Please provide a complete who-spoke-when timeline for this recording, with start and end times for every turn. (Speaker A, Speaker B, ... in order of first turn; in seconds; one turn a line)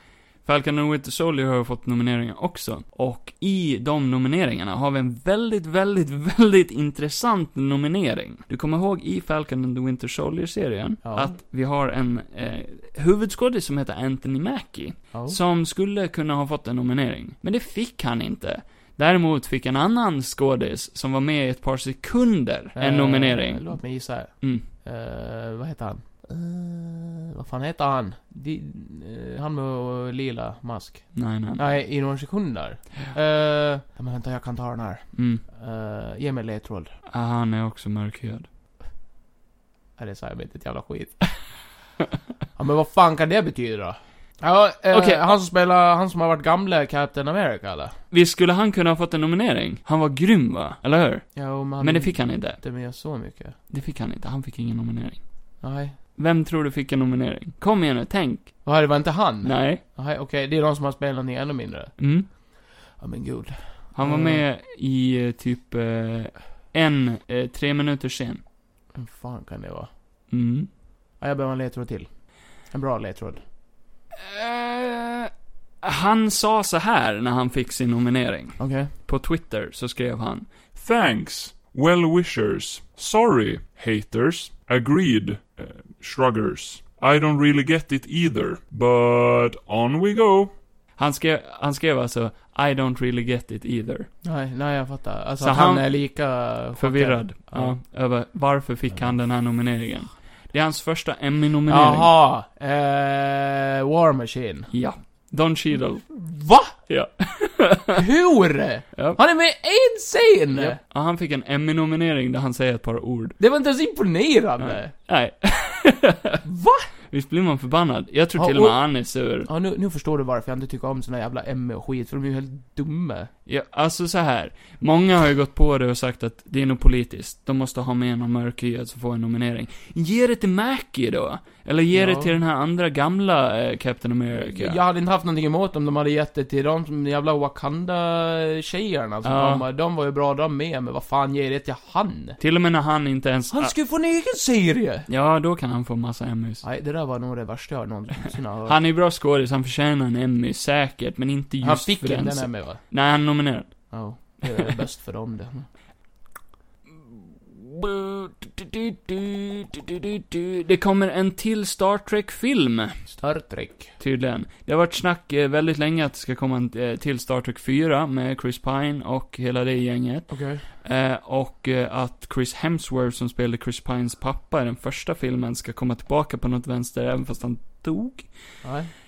Speaker A: 0.4-24.7
Speaker B: 11.0-11.4
Speaker B: 15.1-15.4
Speaker B: 22.7-36.9
Speaker A: 31.1-31.6
Speaker A: 35.1-35.4
Speaker A: 37.1-38.5
Speaker B: 40.0-41.6
Speaker B: 42.5-48.0
Speaker A: 44.9-45.3
Speaker A: 48.1-52.6
Speaker B: 51.3-53.6
Speaker A: 53.7-55.2
Speaker B: 55.6-56.0
Speaker A: 56.1-58.7
Speaker B: 58.6-64.4
Speaker A: 59.4-59.8
Speaker A: 62.0-62.3
Speaker A: 63.9-68.4
Speaker B: 68.9-69.9
Speaker A: 70.3-70.7
Speaker B: 71.2-73.4
Speaker A: 74.1-80.6
Speaker B: 78.6-78.9
Speaker C: 80.7-90.5
Speaker A: 91.0-94.1
Speaker B: 94.2-97.8
Speaker A: 95.4-102.1
Speaker B: 101.7-104.7
Speaker A: 104.7-108.0
Speaker B: 106.1-106.8
Speaker B: 107.9-110.8
Speaker A: 110.5-113.4
Speaker B: 113.4-114.9
Speaker A: 114.6-116.4
Speaker B: 116.4-116.9
Speaker A: 117.0-119.5
Speaker B: 118.3-123.3
Speaker A: 123.5-134.8
Speaker B: 131.9-132.3
Speaker B: 134.3-142.4
Speaker A: 139.2-139.6
Speaker A: 142.4-143.8
Speaker B: 143.5-145.1
Speaker A: 145.1-146.6
Speaker B: 146.6-148.8
Speaker A: 148.7-154.0
Speaker B: 151.6-152.8
Speaker B: 153.9-155.7
Speaker A: 157.5-163.1
Speaker B: 163.1-163.9
Speaker A: 164.0-178.4
Speaker B: 170.3-170.7
Speaker B: 178.6-178.9